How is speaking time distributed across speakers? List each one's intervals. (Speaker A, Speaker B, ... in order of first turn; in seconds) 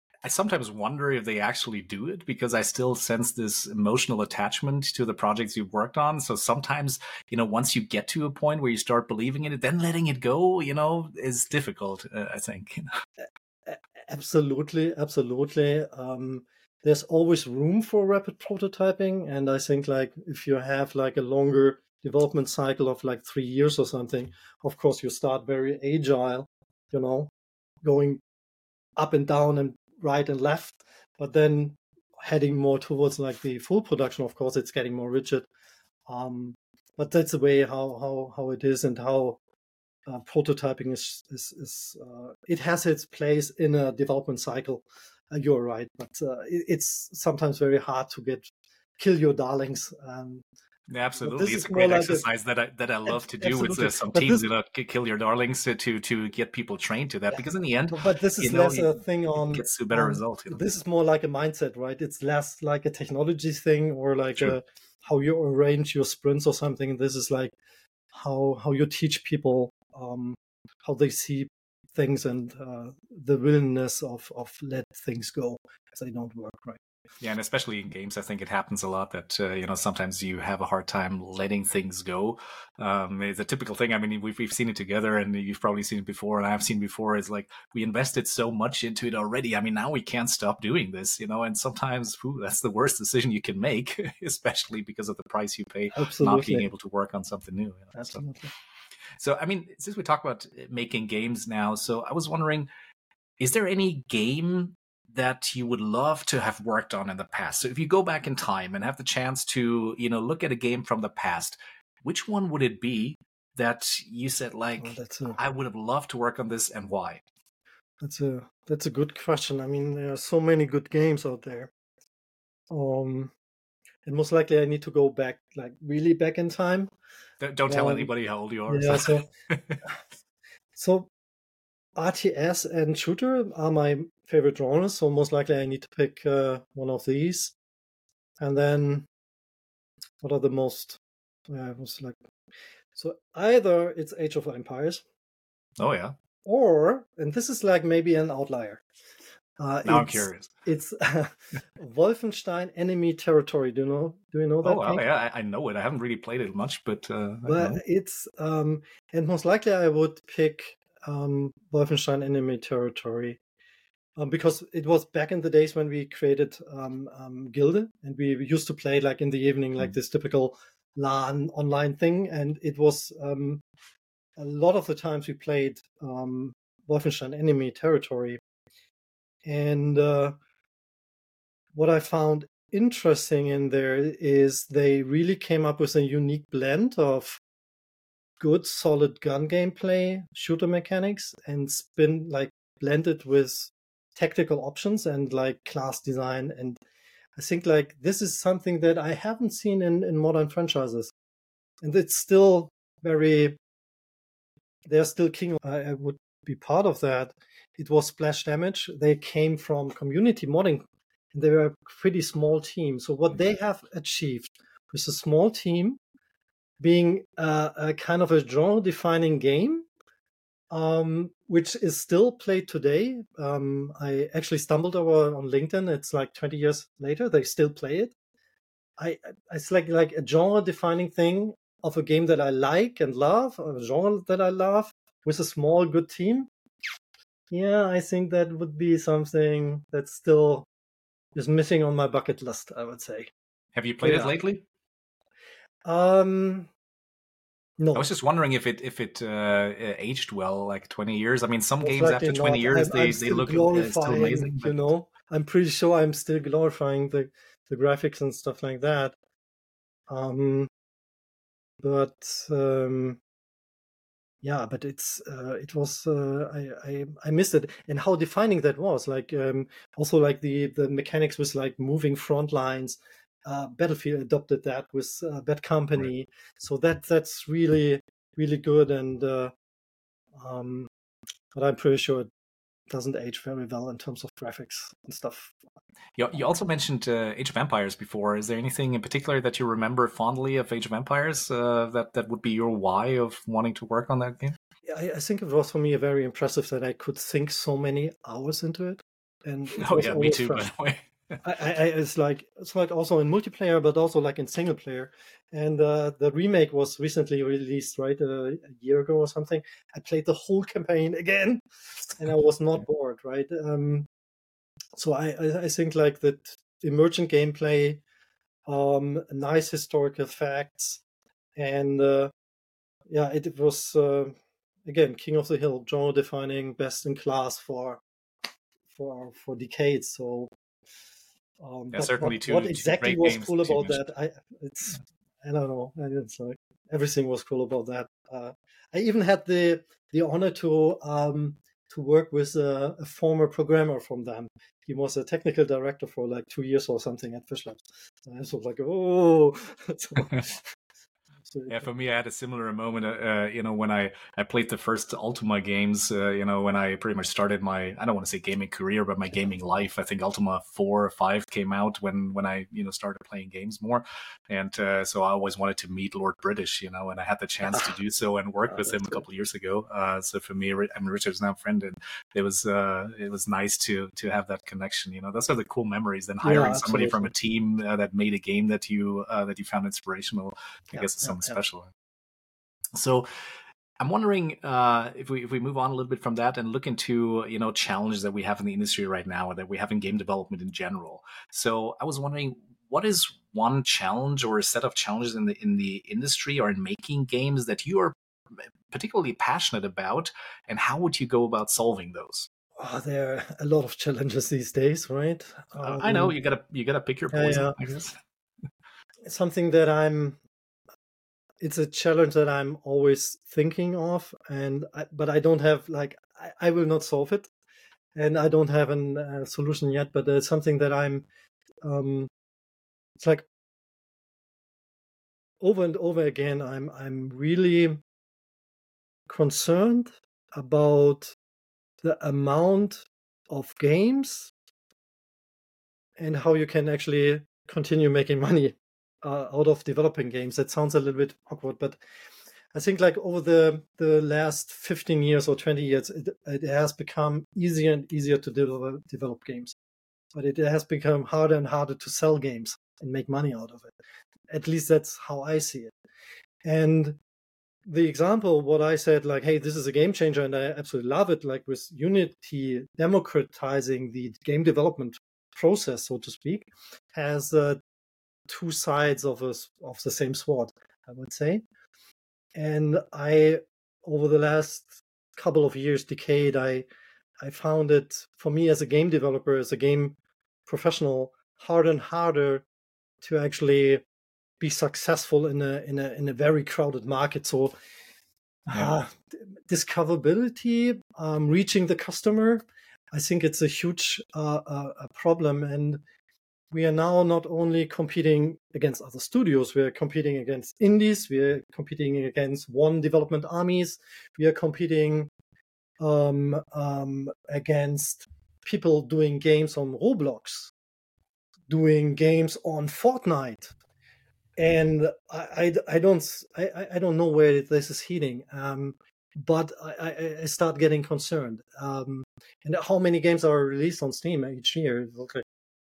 Speaker A: 0.2-12.8, 50.9-60.6, 77.2-98.2, 99.2-102.7, 103.4-117.2, 127.4-129.8, 145.8-146.1, 149.8-150.5, 154.6-157.8, 243.8-244.6, 247.9-254.8, 286.2-294.5, 299.8-301.4, 331.9-334.0, 350.2-350.4, 351.7-381.9, 382.9-383.3, 384.0-402.5, 405.8-408.2
Speaker B: 13.7-27.3, 27.8-28.2, 29.0-35.5, 36.1-39.4, 40.0-50.4, 51.2-52.2, 53.1-54.4, 57.3-67.5, 68.1-76.8, 95.9-96.7, 97.9-98.5, 114.8-115.4, 118.0-121.7, 122.7-123.3, 124.0-126.9, 127.7-128.1, 128.7-129.3, 130.8-131.1, 131.9-137.5, 138.4-139.1, 140.2-142.2, 142.9-145.0, 146.4-148.8, 149.6-155.0, 157.5-163.4, 164.2-173.6, 174.4-178.4, 179.4-180.4, 181.7-187.4, 188.4-196.8, 197.3-201.1, 201.8-203.6, 204.8-216.0, 216.8-219.9, 220.7-228.1, 229.0-236.5, 237.5-240.7, 241.3-243.3, 244.0-244.3, 245.8-246.7, 247.8-248.1, 251.8-259.1, 260.1-260.7, 261.8-263.2, 264.4-279.5, 280.4-280.9, 281.5-282.3, 282.9-285.5, 294.9-300.6, 301.4-314.1, 314.9-318.0, 318.6-321.0, 321.6-322.3, 323.1-328.0, 328.9-330.5, 331.6-350.6, 351.5-351.9, 368.7-369.2, 376.4-377.3, 380.9-381.6, 402.8-406.3, 407.3-407.8, 409.2-410.4, 411.6-417.5, 418.1-421.3, 421.8-422.3, 423.2-423.5, 425.6-428.0, 429.3-431.3, 432.0-434.5, 436.2-442.0, 442.7-449.7, 450.3-453.9, 454.5-455.9, 456.6-457.2, 457.9-467.8, 468.5-471.6, 472.5-476.9, 477.4-482.6, 483.2-484.0, 484.6-487.7, 488.7-496.0, 496.7-505.3, 506.0-510.7, 511.7-513.8, 514.6-525.4